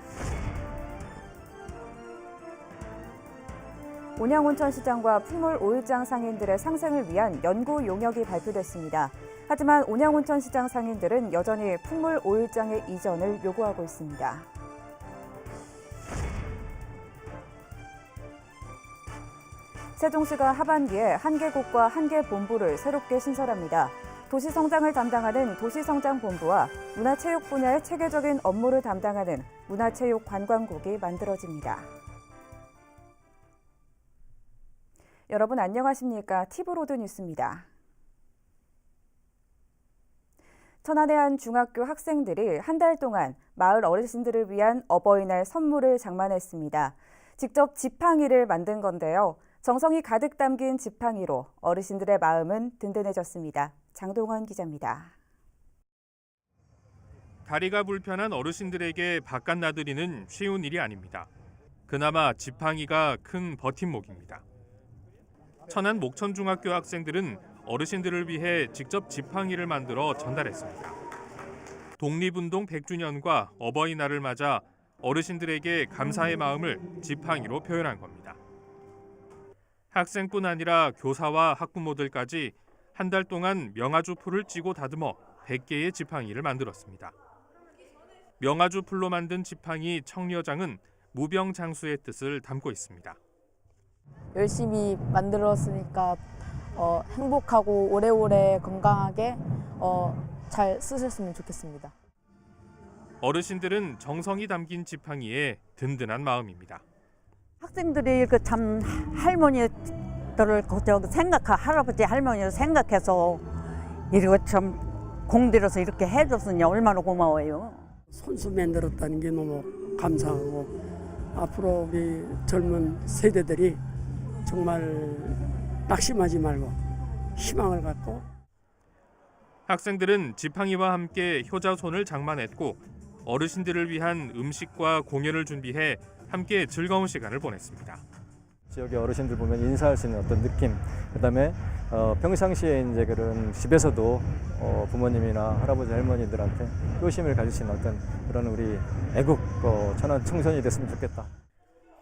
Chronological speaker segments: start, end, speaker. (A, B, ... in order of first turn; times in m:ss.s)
0:04.2-0:14.5 A
0:20.0-0:31.9 A
0:35.3-0:37.6 A
0:40.8-0:55.1 A
0:57.4-1:01.3 B
1:01.9-1:04.4 B
1:05.7-1:10.9 B
1:12.0-1:18.4 B
1:19.9-1:27.1 B
1:28.4-1:33.2 B
1:34.3-1:41.9 C
1:43.2-1:46.8 B
1:47.6-1:49.7 D
1:50.4-1:53.4 D
1:54.1-1:57.8 D
1:58.1-2:00.8 E
2:01.3-2:03.8 E
2:04.4-2:06.8 E
2:07.4-2:08.2 E
2:09.6-2:18.0 B
2:18.7-2:31.3 F